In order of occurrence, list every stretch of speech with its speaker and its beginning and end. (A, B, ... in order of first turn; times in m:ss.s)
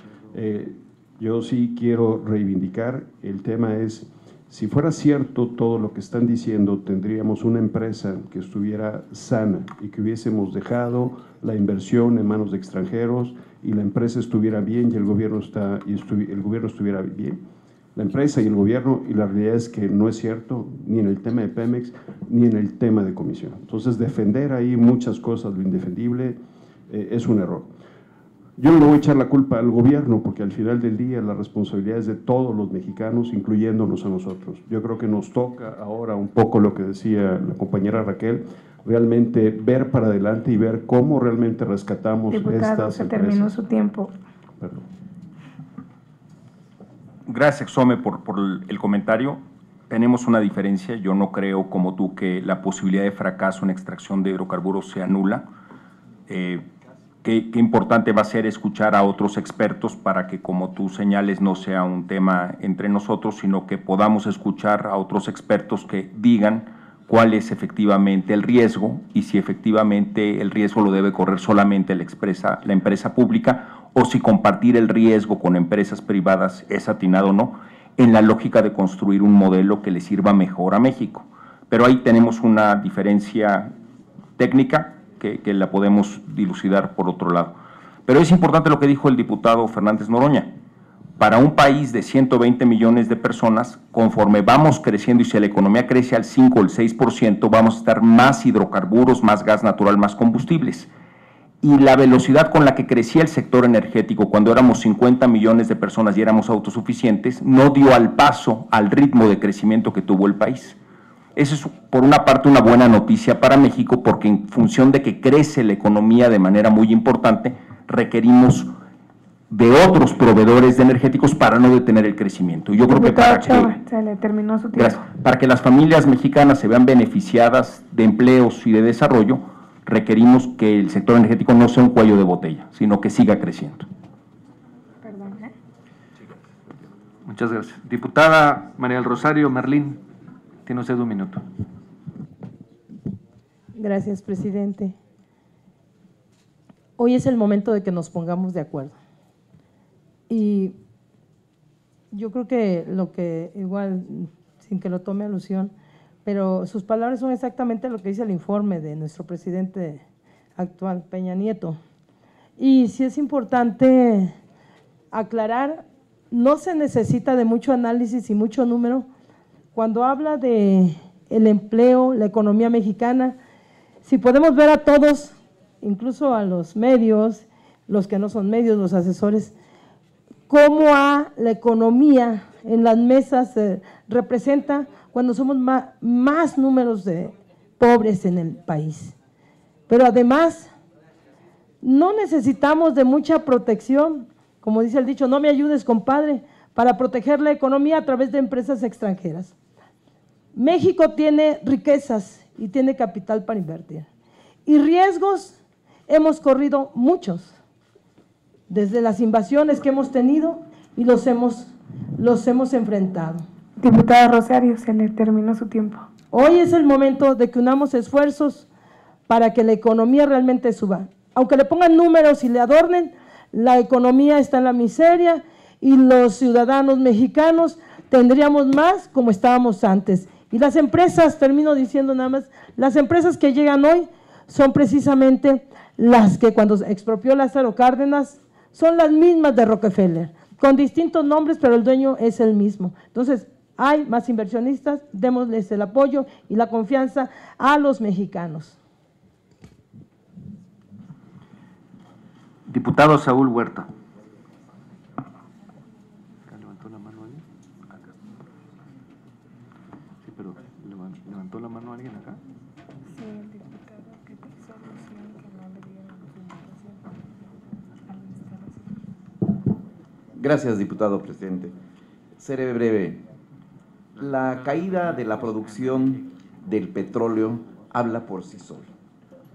0:00.3-0:17.4 A
0:18.0-0:27.7 A
0:28.6-0:43.6 A
0:42.3-0:44.1 B
0:44.6-0:44.8 A
0:47.2-0:55.4 C
0:56.3-0:56.6 C
0:57.2-1:23.7 C
1:24.4-1:30.6 C
1:31.2-1:40.9 C
1:41.6-1:50.8 C
1:51.4-1:58.7 C
1:59.5-2:03.7 C
2:02.9-2:05.0 B
2:04.7-2:13.8 C
2:15.0-2:15.5 B
2:17.2-2:20.0 D
2:20.6-2:21.4 D
2:23.7-2:25.0 E
2:27.0-2:29.0 E
2:30.3-2:30.7 E
2:32.1-2:35.7 E
2:36.2-2:40.0 E
2:40.6-2:41.8 E
2:42.6-2:44.4 E
2:45.1-2:49.1 E
2:49.7-2:53.4 E
2:54.0-2:59.5 E
3:00.5-3:09.2 E
3:09.9-3:10.7 E
3:11.8-3:19.5 E
3:20.5-3:24.1 E
3:24.6-3:27.6 E
3:28.7-3:33.4 E
3:33.8-3:36.1 B
3:36.3-3:38.7 E
3:39.3-4:08.8 E
4:12.7-4:13.9 D
4:16.5-4:17.4 D
4:20.2-4:22.4 D
4:23.1-4:24.3 B
4:30.3-4:31.7 F
4:32.4-4:33.2 F
4:34.2-4:38.9 F